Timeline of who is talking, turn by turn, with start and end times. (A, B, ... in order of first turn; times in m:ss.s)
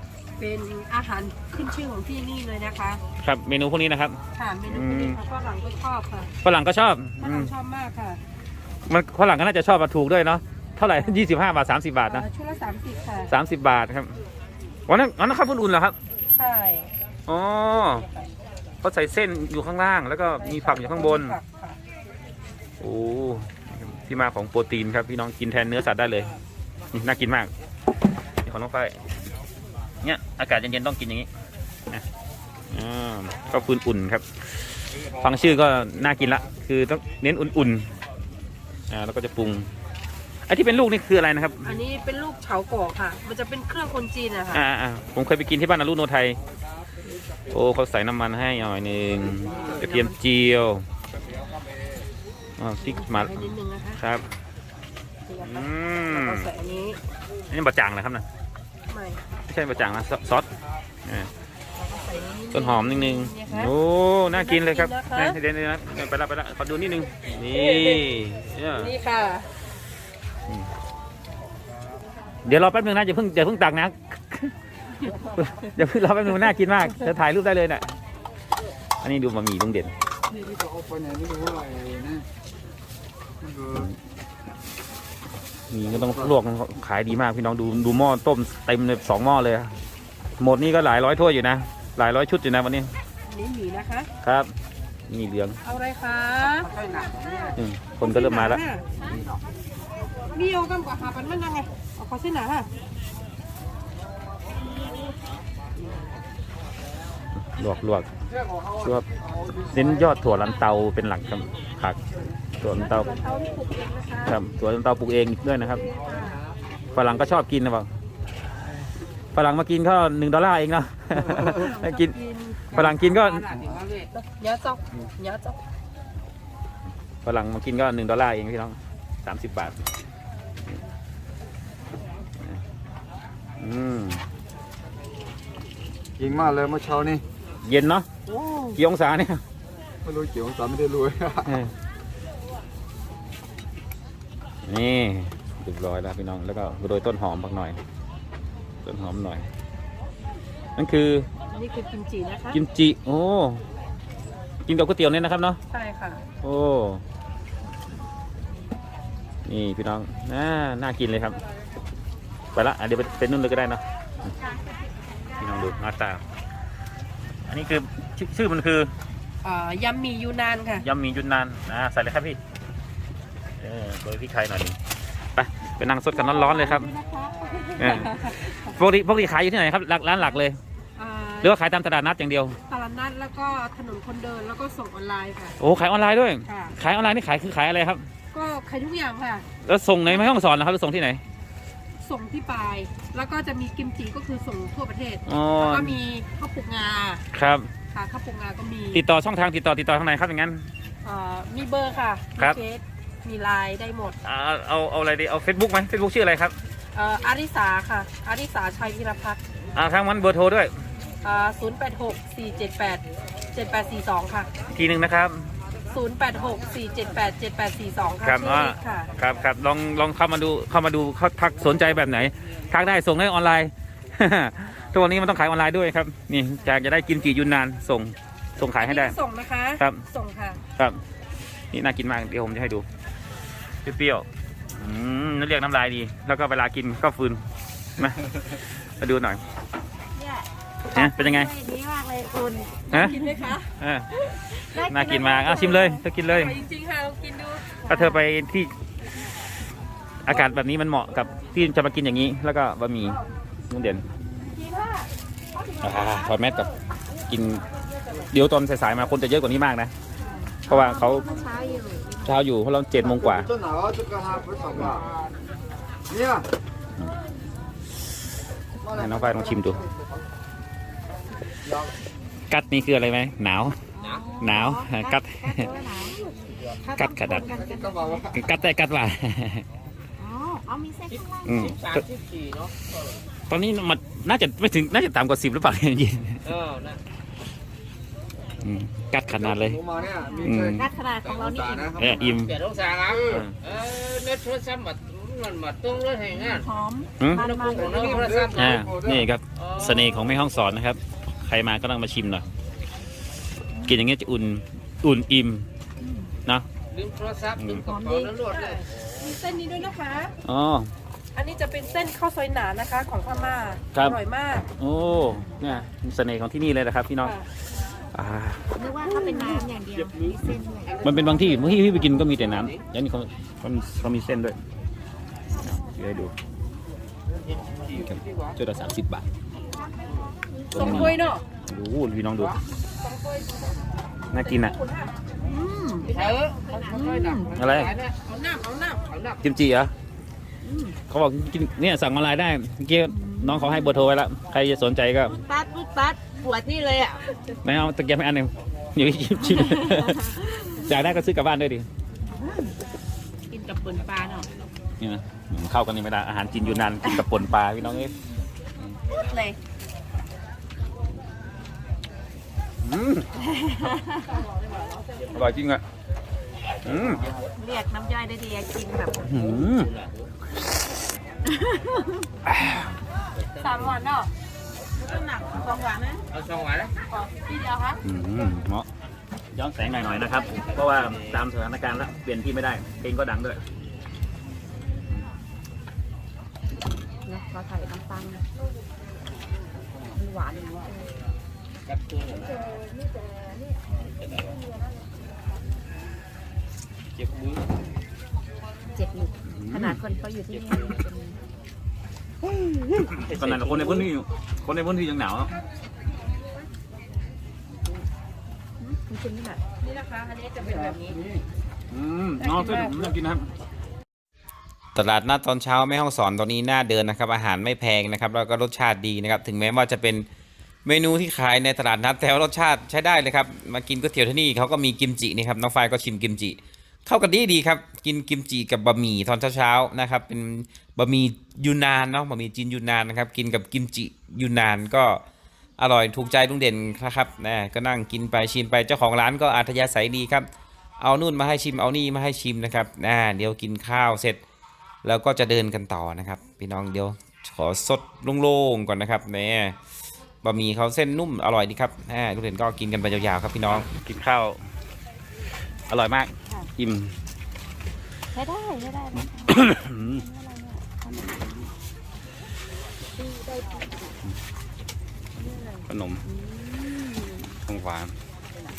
0:00.4-0:03.0 A
0:03.2-0:04.2 B
0:04.3-0:06.3 A
0:04.7-0:05.2 B
0:06.4-0:07.5 B
0:07.2-0:08.2 A
0:08.9-0:12.2 B
0:11.0-0:11.2 A
0:12.1-0:13.3 A
0:13.3-0:14.2 B
0:14.9-0:16.0 B
0:16.4-0:16.9 A
0:17.3-0:18.0 B
0:18.0-0:18.3 A
0:18.8-0:21.4 B
0:20.4-0:21.8 A
0:22.8-0:26.3 B
0:26.9-0:27.5 B
0:28.4-0:29.0 B
0:30.0-0:31.3 B
0:32.7-0:37.9 B
0:38.9-0:39.7 B
0:40.5-0:41.8 B
0:41.6-0:44.6 A
0:44.5-0:46.4 B
0:47.5-0:50.8 B
0:49.5-0:50.1 A
0:52.6-0:54.2 B
0:52.8-0:54.0 A
0:55.3-0:57.0 A
0:55.4-0:56.5 B
0:57.5-0:58.2 B
0:58.9-0:59.2 A
0:59.5-1:00.5 B
1:01.8-1:03.7 A
1:02.5-1:08.9 B
1:04.3-1:05.4 A
1:07.4-1:08.1 A
1:08.8-1:09.5 A
1:12.4-1:14.5 B
1:15.1-1:17.9 B
1:19.0-1:19.9 B
1:20.6-1:22.2 C
1:23.5-1:24.0 B
1:25.7-1:29.7 B
1:30.4-1:32.9 B
1:33.3-1:34.1 A
1:34.2-1:34.5 B
1:35.1-1:35.6 B
1:35.6-1:37.4 A
1:36.7-1:37.4 D
1:37.5-1:38.6 B
1:38.0-1:38.8 A
1:40.3-1:42.7 A
1:47.4-1:48.1 B
1:48.7-1:52.0 B
1:52.6-1:53.1 B
1:52.7-1:54.4 A
1:54.2-1:55.9 B
1:55.8-1:56.4 A
1:56.9-1:57.9 B
1:59.3-2:02.1 B
2:01.2-2:05.6 A
2:02.7-2:03.5 B
2:03.5-2:04.1 D
2:07.2-2:09.8 B
2:13.6-2:14.2 B
2:16.2-2:16.7 B
2:17.6-2:18.1 B
2:18.3-2:18.6 A
2:18.7-2:19.4 B
2:20.1-2:21.2 C
2:21.4-2:21.7 B
2:24.6-2:27.8 B
2:28.8-2:29.5 B
2:30.8-2:31.3 B
2:31.5-2:32.6 A
2:32.5-2:33.6 B
2:34.6-2:35.6 B
2:35.7-2:36.2 A
2:36.4-2:37.0 B
2:39.4-2:41.4 B
2:42.5-2:44.3 B
2:45.4-2:46.2 B
2:47.5-2:48.9 B
2:49.4-2:50.8 A
2:50.7-2:52.4 B
2:53.6-2:54.8 B
2:55.4-2:56.9 B
2:56.1-2:57.5 E
2:57.8-2:58.5 A
2:57.8-3:00.6 B
3:01.0-3:01.5 A
3:01.4-3:02.6 B
3:02.7-3:05.6 A
3:05.6-3:08.0 B
3:06.4-3:06.7 A
3:08.3-3:09.4 A
3:09.6-3:11.2 B
3:12.0-3:17.2 A
3:15.2-3:16.0 B
3:17.3-3:17.7 B
3:17.9-3:19.0 A
3:18.9-3:20.7 B
3:21.0-3:24.2 A
3:24.2-3:26.5 B
3:26.9-3:29.4 A
3:29.7-3:30.7 B
3:31.2-3:34.5 A
3:34.7-3:35.5 B
3:35.9-3:39.1 A
3:38.2-3:49.2 B
3:48.8-3:50.6 A
3:51.7-3:52.8 B
3:53.8-3:57.4 B
3:58.0-3:58.3 B
3:59.0-3:59.4 B
4:00.1-4:03.4 E
4:00.9-4:01.5 B
4:02.9-4:03.7 A
4:03.8-4:04.1 B
4:04.7-4:06.0 E
4:04.7-4:06.6 B
4:05.4-4:08.2 A
4:07.8-4:08.7 B
4:10.2-4:14.0 B
4:14.4-4:15.1 A
4:15.8-4:16.7 B
4:17.3-4:17.6 B
4:18.2-4:19.9 B
4:20.2-4:22.4 E
4:20.7-4:21.3 B
4:22.2-4:23.6 B
4:24.7-4:25.0 B
4:28.8-4:29.9 B
4:32.5-4:33.8 B
4:33.9-4:38.3 E
4:34.0-4:34.3 D
4:34.4-4:35.7 B
4:37.0-4:37.6 B
4:38.3-4:39.6 B
4:40.2-4:41.7 E
4:41.1-4:43.2 D
4:41.4-4:42.0 B
4:43.5-4:46.4 B
4:46.4-4:47.0 D
4:48.6-4:50.9 B
4:49.9-4:52.2 E
4:52.0-4:52.6 B
4:52.3-4:56.7 D
4:53.2-4:53.5 B
4:56.3-4:58.2 E
4:57.2-4:57.4 B
4:57.3-4:58.8 D
4:57.5-4:58.2 A
4:58.5-5:02.4 B
4:59.5-5:00.4 D
5:03.8-5:05.7 B
5:06.0-5:06.3 E
5:06.9-5:08.8 D
5:07.6-5:07.8 B
5:07.8-5:08.3 E
5:08.5-5:10.3 A
5:10.4-5:10.9 B
5:11.3-5:14.7 A
5:14.8-5:17.4 B
5:18.1-5:18.6 B
5:18.8-5:21.0 E
5:19.2-5:19.5 A
5:19.9-5:22.7 D
5:20.4-5:24.6 B
5:25.6-5:26.3 B
5:27.4-5:28.5 D
5:28.0-5:29.2 B
5:30.0-5:30.3 D
5:30.7-5:31.4 A
5:30.7-5:32.6 B
5:30.8-5:31.0 E
5:33.0-5:33.7 A
5:34.3-5:34.7 B
5:34.4-5:35.2 A
5:35.4-5:37.7 E
5:36.0-5:38.1 D
5:36.1-5:36.6 A
5:37.6-5:37.9 B
5:38.2-5:39.0 A
5:39.0-5:39.4 D
5:39.4-5:39.9 B
5:40.6-5:41.0 E
5:41.1-5:45.4 B
5:43.1-5:44.0 E
5:45.3-5:47.2 E
5:47.6-5:51.9 B
5:49.5-5:50.9 E
5:52.3-5:52.7 E
5:53.5-5:54.5 E
5:55.0-5:58.1 B
5:59.3-5:59.5 E
6:02.8-6:03.3 B
6:03.4-6:04.4 E
6:05.0-6:05.3 D
6:05.3-6:05.8 B
6:06.8-6:07.2 B
6:06.9-6:07.4 D
6:07.6-6:09.3 E
6:09.2-6:09.9 B
6:09.4-6:10.3 D
6:11.5-6:12.3 E
6:12.4-6:12.9 B
6:13.4-6:13.9 D
6:13.6-6:14.3 A
6:15.0-6:15.7 D
6:15.1-6:16.2 E
6:16.3-6:16.9 D
6:17.1-6:18.0 A
6:18.0-6:18.9 B
6:19.5-6:23.6 B
6:20.5-6:21.4 D
6:27.2-6:28.4 E
6:30.1-6:31.1 E
6:31.8-6:32.7 D
6:34.0-6:34.6 D
6:37.1-6:37.7 D
6:38.9-6:41.4 E
6:39.4-6:40.0 B
6:40.5-6:41.0 D
6:42.4-6:43.1 E
6:43.1-6:45.5 B
6:43.1-6:44.1 D
6:48.8-6:49.6 E
6:49.8-6:51.2 A
6:51.9-6:53.4 B
6:52.4-6:53.1 A
6:54.9-7:00.3 B
7:00.8-7:15.2 B
7:15.8-7:20.5 B
7:21.0-7:24.4 B
7:25.0-7:29.8 B
7:30.4-7:34.6 B
7:35.9-7:37.1 B
7:38.3-7:41.6 E
7:39.2-7:40.2 B
7:43.2-7:44.1 E
7:45.4-7:47.6 E
7:45.9-7:46.2 B
7:47.7-7:48.1 B